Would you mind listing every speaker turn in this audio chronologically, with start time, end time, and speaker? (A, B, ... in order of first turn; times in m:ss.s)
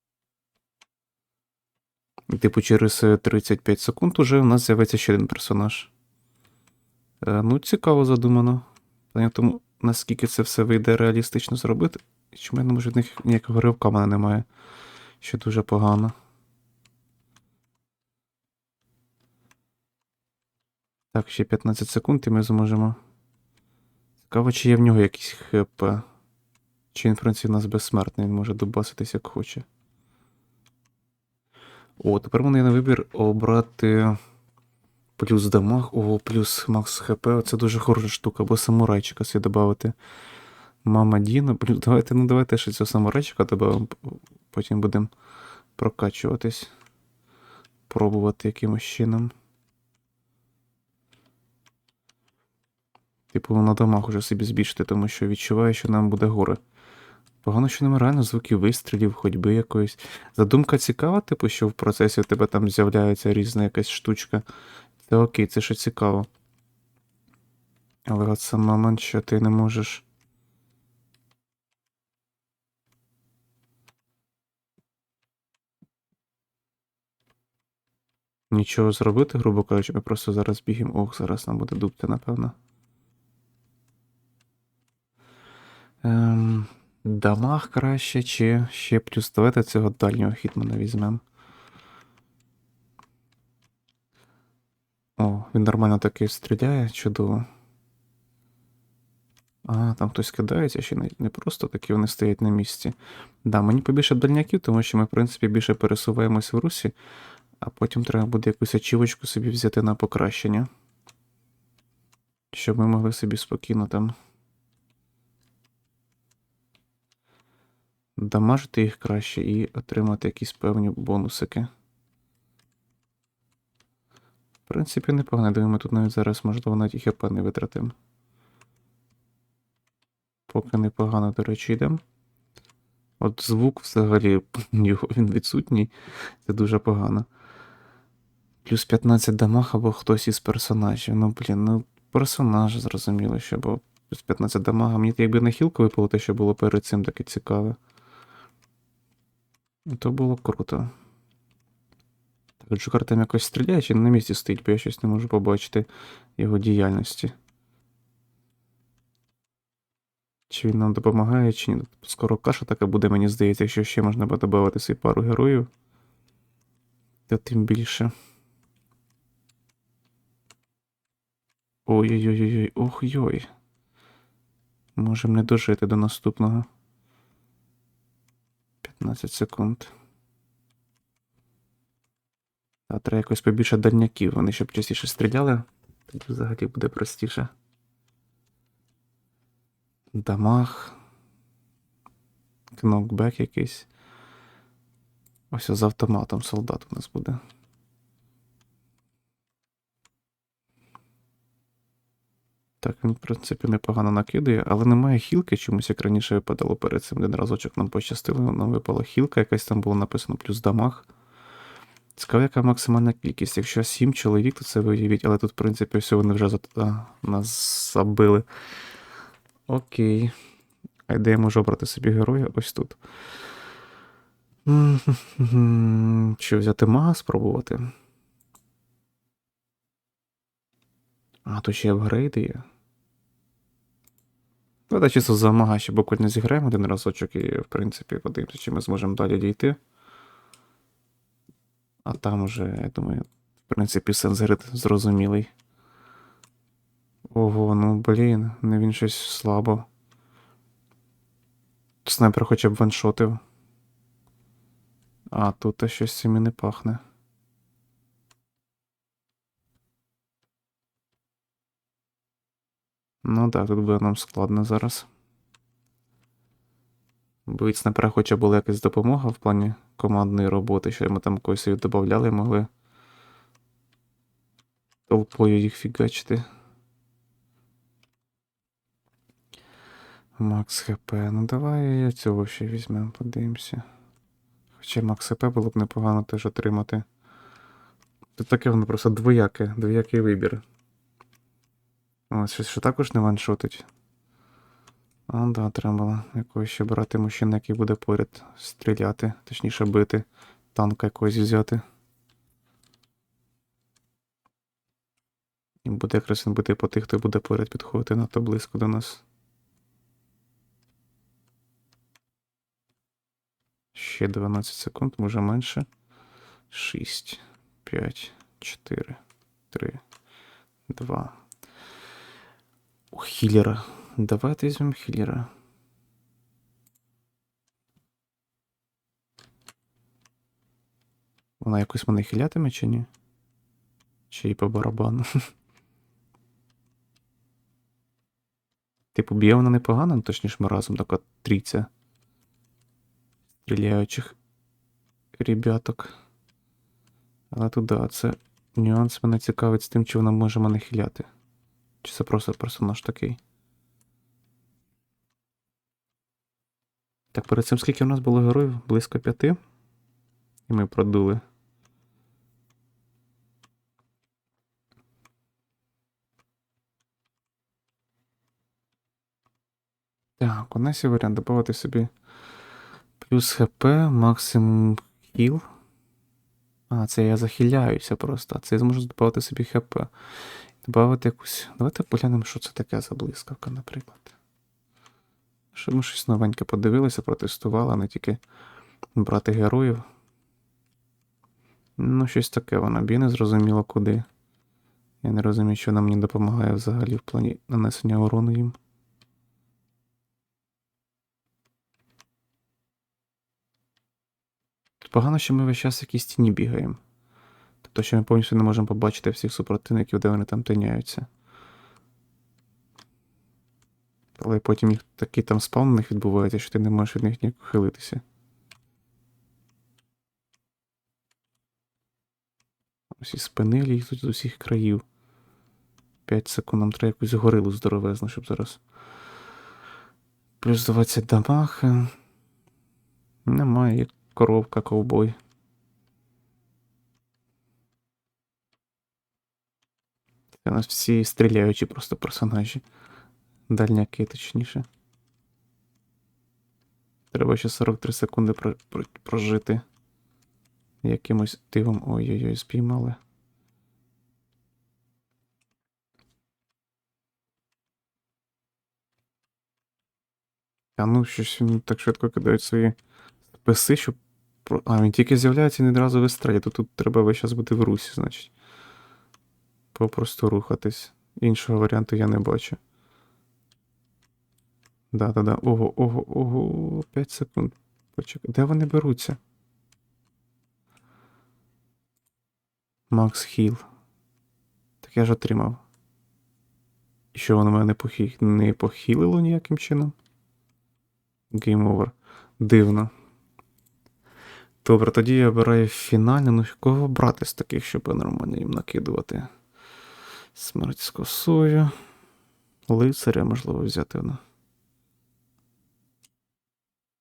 0:02.3-0:05.9 A
0:07.2-0:14.4 A
0:15.2-0:16.1 A
0:21.1-0:23.0 A
0:24.2-0:26.0 A
0:26.9-0:29.6 A
0:32.0-0:34.2 A
0:35.2-0:39.9 A
0:40.8-0:45.1 A
0:45.8-0:46.7 A
0:47.9-0:49.3 A
0:53.3-0:56.6 A
0:57.4-1:04.4 A
1:05.0-1:06.3 A
1:08.1-1:10.0 A
1:18.5-1:22.5 A
1:26.0-1:31.2 A
1:35.2-1:37.4 A
1:39.6-1:46.9 A
1:47.6-1:50.7 A
1:52.5-1:54.1 A
1:58.2-2:01.7 A
2:04.7-2:07.9 A
2:10.5-2:12.0 A
2:13.2-2:15.9 A
2:16.4-2:17.3 A
2:18.6-2:27.8 A
2:29.9-2:30.9 A
2:32.6-2:37.3 A
2:40.5-2:45.7 A
2:47.3-2:48.1 A
2:51.8-2:53.5 A
2:55.0-2:56.7 A
2:58.8-2:59.9 A
3:02.9-3:07.5 A
3:10.1-3:11.0 A
3:12.7-3:13.9 A
3:15.5-3:17.4 A
3:22.8-3:31.1 A
3:32.2-3:38.4 A
3:39.7-3:40.3 A
3:41.1-3:43.0 A
3:44.6-3:47.9 A
3:51.4-3:52.6 A
3:54.9-3:59.8 A
4:02.0-4:05.5 A
4:07.3-4:09.9 A
4:12.0-4:13.4 A
4:15.3-4:17.0 A
4:23.2-4:25.1 A
4:27.5-4:32.7 A
4:35.1-4:36.4 A
4:40.4-4:43.8 A
4:44.8-4:47.0 A
4:48.4-4:50.6 A
4:52.3-4:53.8 A
4:55.3-5:01.8 A
5:05.8-5:09.2 A
5:13.9-5:15.8 A
5:16.7-5:19.2 A
5:19.7-5:20.0 A
5:20.9-5:21.4 A
5:23.1-5:25.5 A
5:31.6-5:33.1 A
5:34.3-5:35.2 A
5:39.1-5:41.9 A
5:43.6-5:44.4 A
5:45.4-5:46.1 A
5:47.5-5:51.3 A
5:52.0-5:53.4 A
5:57.3-5:59.6 A
6:00.7-6:01.4 A
6:10.4-6:12.1 A
6:13.2-6:15.6 A
6:16.9-6:20.1 A
6:20.8-6:24.3 A
6:25.7-6:28.4 A
6:29.1-6:30.0 A
6:32.0-6:34.2 A
6:35.2-6:38.8 A
6:45.0-6:47.0 A
6:47.8-6:51.3 A
6:54.4-6:58.2 A
7:03.1-7:05.0 A
7:06.3-7:08.8 A
7:10.6-7:12.1 A
7:13.4-7:15.4 A
7:20.6-7:22.8 A
7:23.7-7:24.8 A
7:27.3-7:29.8 A
7:31.0-7:33.2 A
7:41.0-7:42.9 A
7:43.5-7:48.5 A
7:49.9-7:52.8 A
7:55.1-7:59.4 A
8:03.1-8:03.8 A
8:05.0-8:05.8 A
8:07.3-8:10.1 A
8:11.5-8:13.1 A
8:14.8-8:19.5 A
8:20.5-8:21.9 A
8:22.9-8:24.4 A